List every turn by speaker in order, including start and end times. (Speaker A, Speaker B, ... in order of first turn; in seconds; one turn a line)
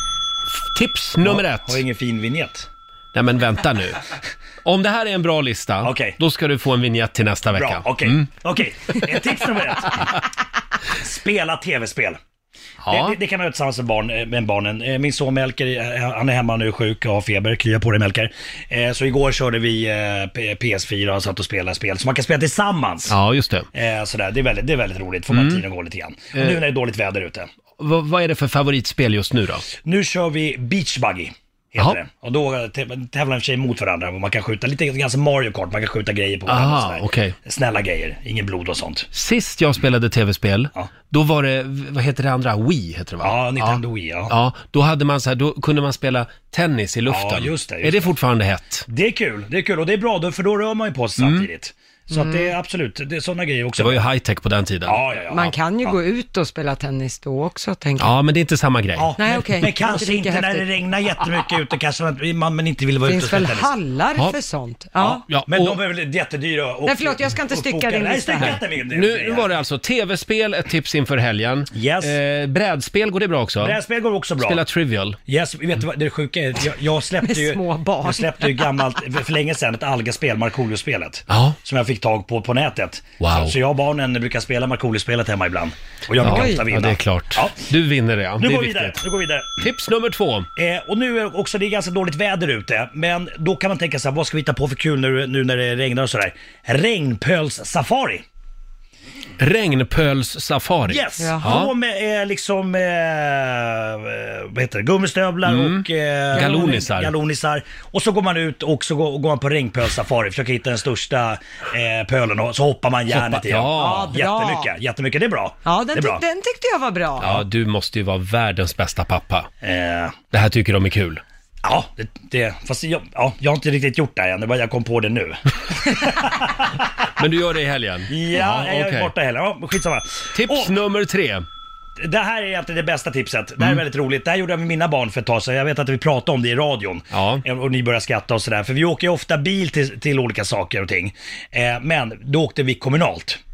Speaker A: 0.6-1.8
Speaker B: 1.2-2.7
Speaker A: 3.1-4.1
Speaker A: 4.6-8.3
Speaker B: 5.8-6.2
Speaker B: 7.5-10.2
Speaker B: 10.8-12.2
Speaker A: 12.8-13.2
Speaker B: 12.9-23.1
Speaker A: 23.1-23.7
Speaker B: 23.7-27.5
Speaker A: 25.3-25.6
Speaker A: 27.8-29.6
Speaker B: 29.8-39.1
Speaker A: 36.5-37.3
Speaker A: 39.1-48.9
Speaker B: 43.2-44.3
Speaker B: 47.1-48.1
Speaker B: 48.9-54.0
Speaker A: 51.2-51.5
Speaker C: 52.1-52.5
Speaker A: 53.8-55.0
Speaker B: 54.9-56.0
Speaker C: 55.3-58.1
Speaker A: 58.0-59.1
Speaker B: 58.9-63.7
Speaker C: 59.2-60.8
Speaker C: 63.0-65.2
Speaker B: 65.0-69.5
Speaker A: 65.3-65.8
Speaker C: 66.8-68.6
Speaker A: 68.4-73.8
Speaker B: 71.7-72.2
Speaker B: 73.6-74.6
Speaker A: 74.4-75.2
Speaker B: 75.3-87.6
Speaker C: 77.2-78.7
Speaker A: 81.3-81.5
Speaker A: 83.2-83.5
Speaker C: 86.2-86.7
Speaker A: 86.2-89.0
Speaker B: 88.4-89.6
Speaker A: 89.6-90.5
Speaker B: 90.5-98.2
Speaker A: 99.4-101.7
Speaker B: 100.9-116.2
Speaker C: 101.2-101.5
Speaker A: 105.4-107.1
Speaker C: 106.3-106.9
Speaker A: 113.1-114.1
Speaker C: 113.7-114.7
Speaker C: 115.6-117.4
Speaker A: 117.2-119.5
Speaker B: 119.6-120.2
Speaker A: 120.3-121.2
Speaker B: 121.6-126.9
Speaker A: 127.2-129.1
Speaker B: 128.1-130.8
Speaker A: 130.3-131.4
Speaker B: 132.0-143.4
Speaker A: 137.1-137.4